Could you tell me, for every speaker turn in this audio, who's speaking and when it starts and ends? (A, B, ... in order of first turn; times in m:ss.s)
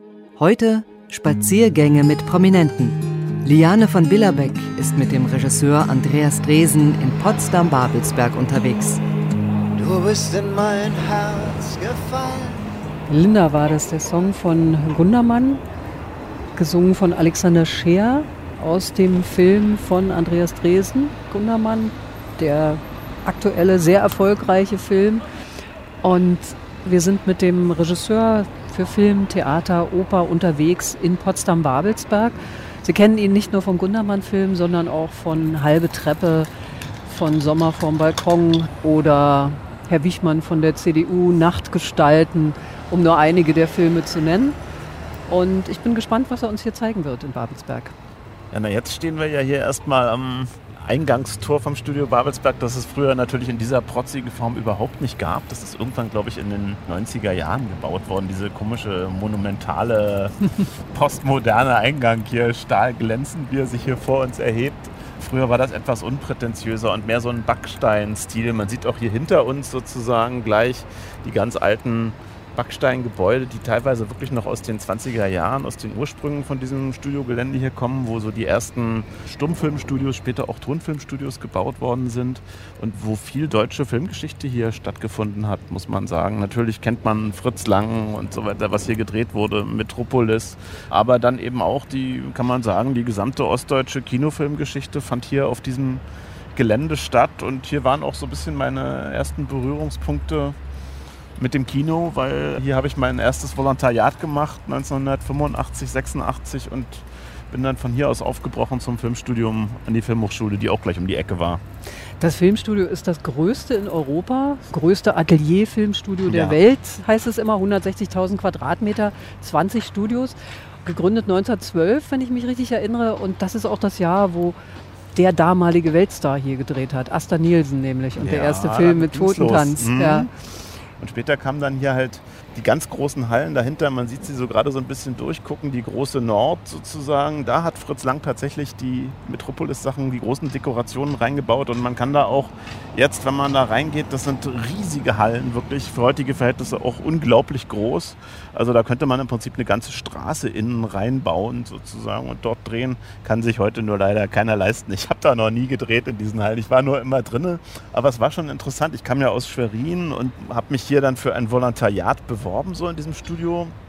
0:00.4-0:09.0 A
0:09.7-0:12.6 B
0:13.1-0:15.6 C
0:16.6-0:25.2 C
0:26.0-0:36.5 C
0:37.0-0:44.6 C
0:45.3-0:47.9 C
0:48.5-1:00.4 D
1:00.9-1:40.6 D
1:41.4-1:51.6 D
1:52.2-2:04.6 C
1:56.2-1:56.6 D
2:05.1-2:10.3 C
2:08.2-2:10.3 D
2:11.0-2:43.7 D